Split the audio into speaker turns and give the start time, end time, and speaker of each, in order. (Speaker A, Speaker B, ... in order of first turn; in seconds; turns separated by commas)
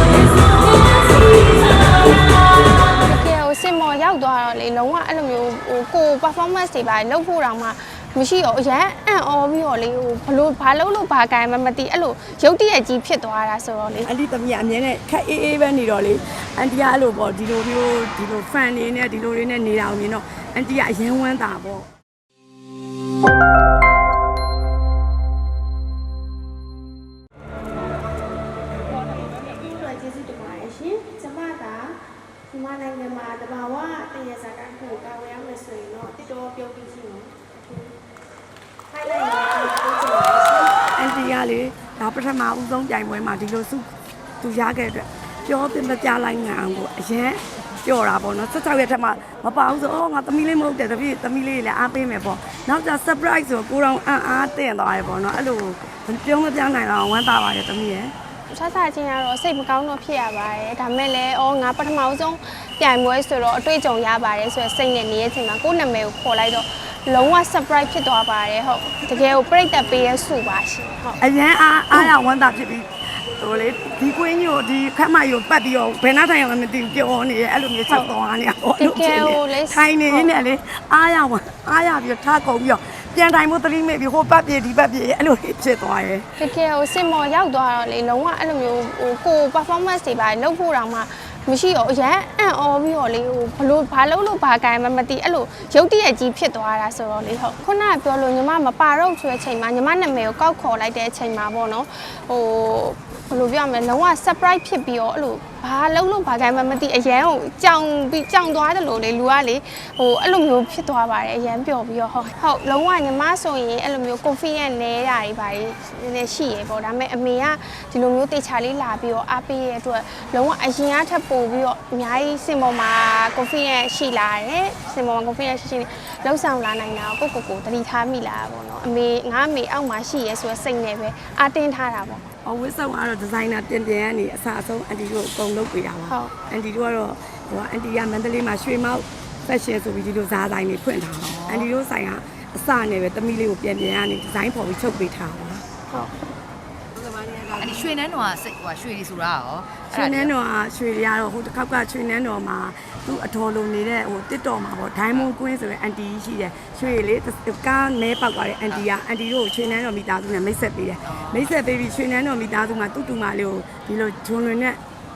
Speaker A: 3.0-14.1, Speaker B: 14.0-21.9, Speaker A: 29.1-37.9, Speaker A: 38.9-40.8, Speaker B: 41.0-58.1, Speaker A: 58.5-71.2, Speaker B: 71.2-86.4, Speaker A: 78.8-80.3, Speaker A: 86.4-132.2, Speaker B: 132.4-145.7, Speaker A: 136.1-136.3, Speaker C: 141.2-141.7, Speaker C: 147.2-150.3, Speaker B: 149.8-164.8, Speaker C: 161.1-161.5